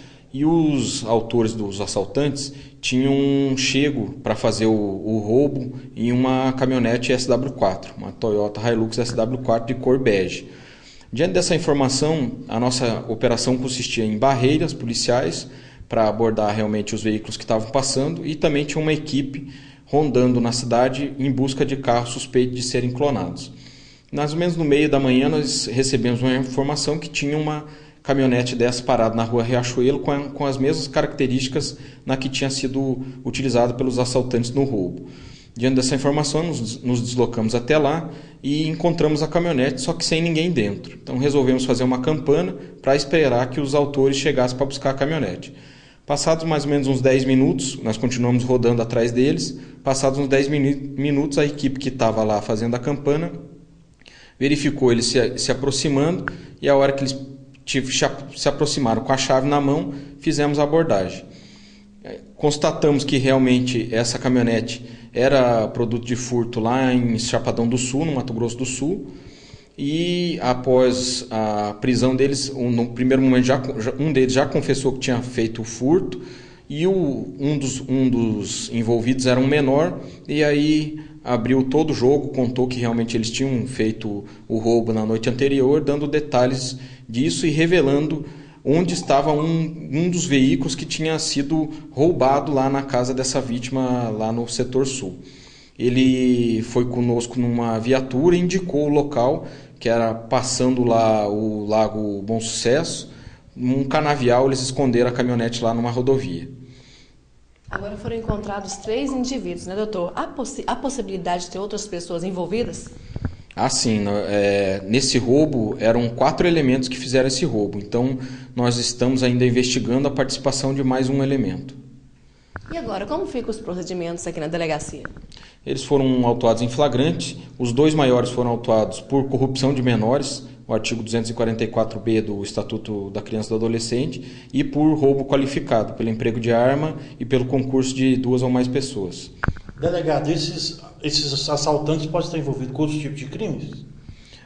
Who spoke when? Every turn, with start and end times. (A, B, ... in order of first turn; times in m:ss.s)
0:00.3-0:10.5 A
0:11.1-0:23.5 A
0:24.1-0:45.6 A
0:46.1-0:53.3 A
0:54.4-1:01.2 A
1:02.1-1:09.1 A
1:09.8-1:35.2 A
1:35.8-1:46.5 A
1:47.7-1:52.9 B
1:53.6-2:01.8 A
2:02.7-2:05.1 B
2:05.6-2:19.3 A
2:19.8-2:23.8 C